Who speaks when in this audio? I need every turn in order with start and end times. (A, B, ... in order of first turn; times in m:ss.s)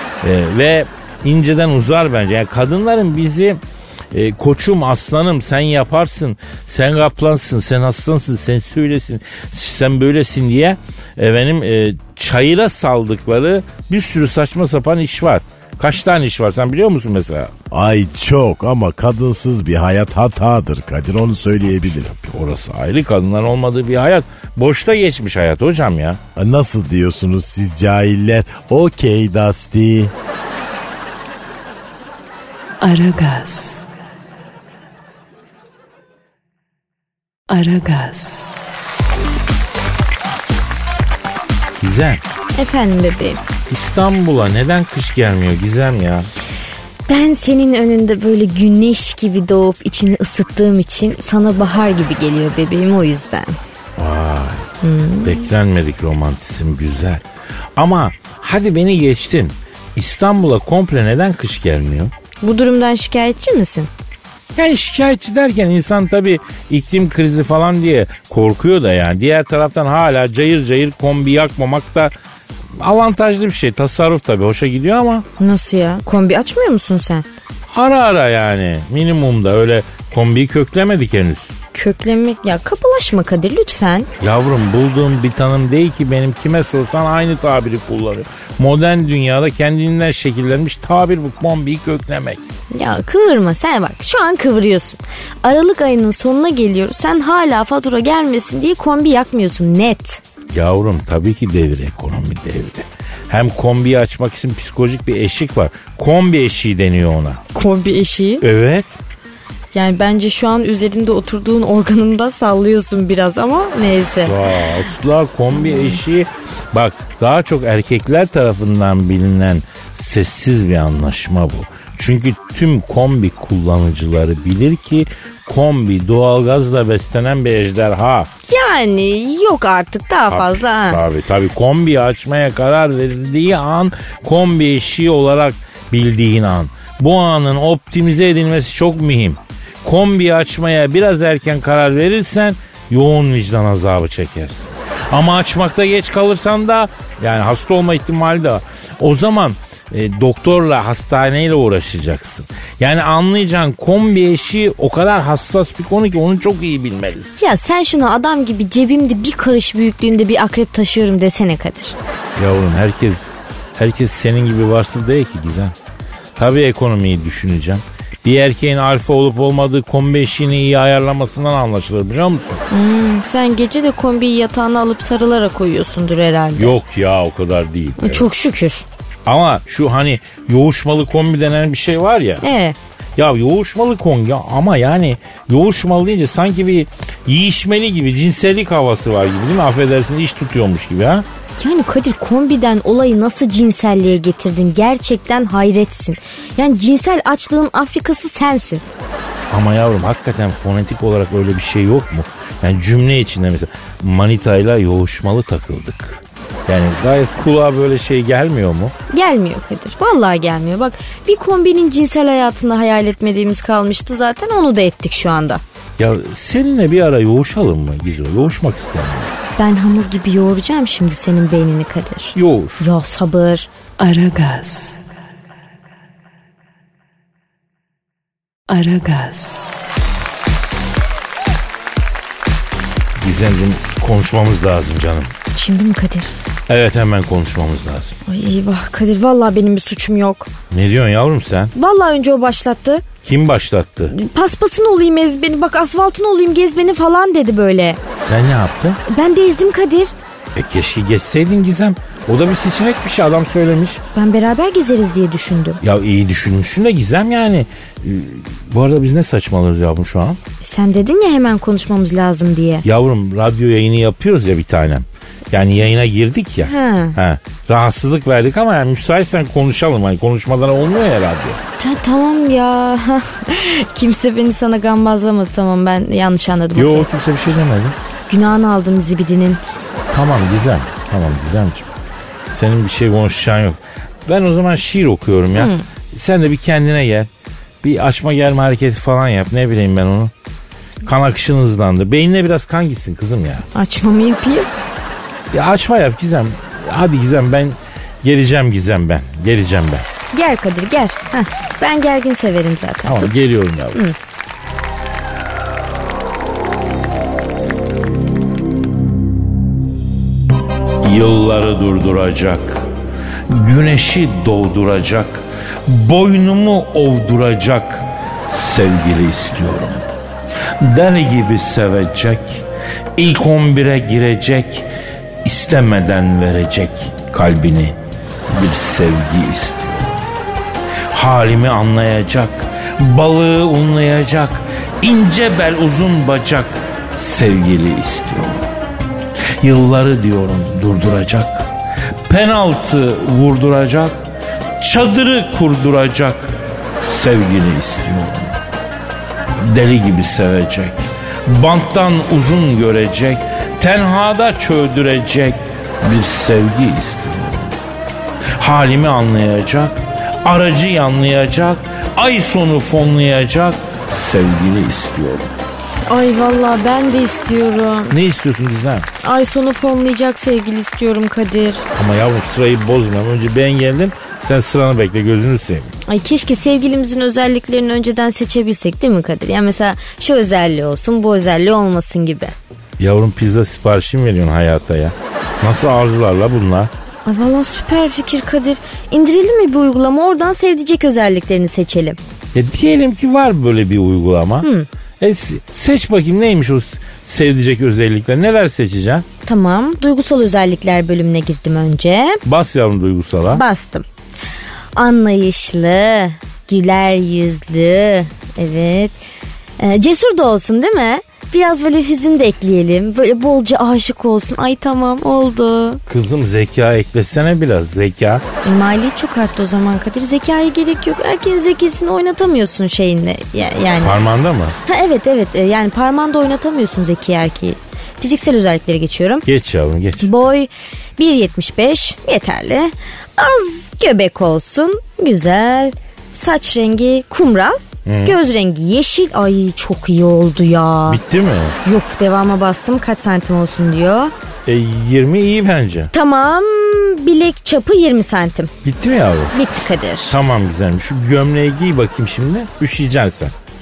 0:00.2-0:03.6 A
0:04.1-0:17.5 A
0:17.7-0:22.1 B
0:21.9-0:26.2 A
0:26.4-0:30.1 B
0:32.8-0:33.8 C
0:37.5-0:38.5 C
0:41.8-0:42.2 A
0:42.5-0:43.4 D
0:43.7-0:46.3 A
0:47.1-0:53.6 D
0:54.0-0:54.7 A
0:54.8-0:55.4 D
0:55.2-0:57.2 A
0:57.8-1:02.1 A
1:02.4-1:03.9 D
1:04.5-1:12.1 A
1:12.8-1:15.2 A
1:15.4-1:17.2 D
1:17.7-1:21.5 A
1:21.7-1:24.1 D
1:24.2-1:32.4 A
1:32.7-1:40.2 D
1:40.5-1:47.4 A
1:47.5-1:48.4 D
1:48.4-1:48.9 A
1:49.7-1:54.4 D
1:54.2-2:08.3 A
1:55.6-1:56.0 D
2:08.4-2:11.0 D
2:10.3-2:37.3 A
2:37.4-2:42.0 D
2:42.4-2:45.7 A
2:46.4-2:52.6 A
2:52.7-2:56.7 D
2:56.6-2:58.2 A
2:58.0-2:58.8 D
2:59.2-3:02.4 A
3:02.4-3:02.8 D
3:03.2-3:11.2 A
3:11.6-3:18.8 D
3:19.5-3:28.9 A
3:29.1-3:35.6 D
3:36.0-3:39.3 A
3:39.6-3:43.7 D
3:42.3-3:42.9 A
3:44.0-3:45.0 C
3:48.7-3:49.7 C
3:53.2-3:55.3 A
3:55.5-3:56.3 D
3:56.7-3:58.2 A
3:58.2-4:00.5 D
4:00.7-4:01.7 A
4:01.7-4:03.0 D
4:03.2-4:04.1 A
4:04.1-4:08.0 D
4:08.2-4:09.0 A
4:09.1-4:10.1 D
4:10.6-4:14.0 A
4:14.1-4:15.8 D
4:15.8-4:20.4 A
4:20.6-4:22.8 D
4:22.8-4:31.6 A
4:26.6-4:27.2 D
4:31.8-4:37.1 D
4:36.8-4:38.0 A
4:38.3-4:39.6 D
4:40.1-4:41.9 A
4:42.5-4:47.3 A
4:45.6-4:45.8 D
4:47.8-4:50.3 A
4:51.0-4:53.7 A
4:53.7-4:54.7 D
4:55.5-5:00.1 A
5:00.3-5:03.3 D
5:03.0-5:04.0 A
5:11.0-5:12.8 A
5:13.5-5:20.0 A
5:20.8-5:22.6 A
5:23.2-5:24.9 A
5:25.4-5:28.0 A
5:28.5-5:30.3 A
5:31.1-5:38.7 A
5:39.6-5:41.7 A
5:42.2-5:44.2 A
5:44.8-5:48.5 A
5:49.6-5:57.8 A
5:58.6-6:05.5 A
6:06.1-6:08.2 D
6:08.1-6:09.1 A
6:09.2-6:11.8 D
6:11.9-6:15.9 A
6:16.1-6:22.5 D
6:23.0-6:26.9 A
6:27.2-6:32.2 D
6:32.5-6:34.7 A
6:34.6-6:34.9 D
6:35.2-6:39.2 A
6:39.4-6:42.4 D
6:42.4-6:43.6 A
6:43.5-6:44.0 D
6:44.9-6:49.2 D
6:49.8-6:56.0 D
6:56.1-6:58.4 A
6:58.6-7:04.2 D
7:04.0-7:04.8 A
7:04.8-7:09.4 D
7:09.5-7:10.3 A
7:10.2-7:21.2 D
7:18.0-7:18.4 A
7:21.1-7:21.8 A
7:21.8-7:24.3 D
7:24.6-7:26.1 A
7:26.1-7:28.7 D
7:28.8-7:29.5 A
7:29.5-7:30.4 D
7:30.3-7:33.5 A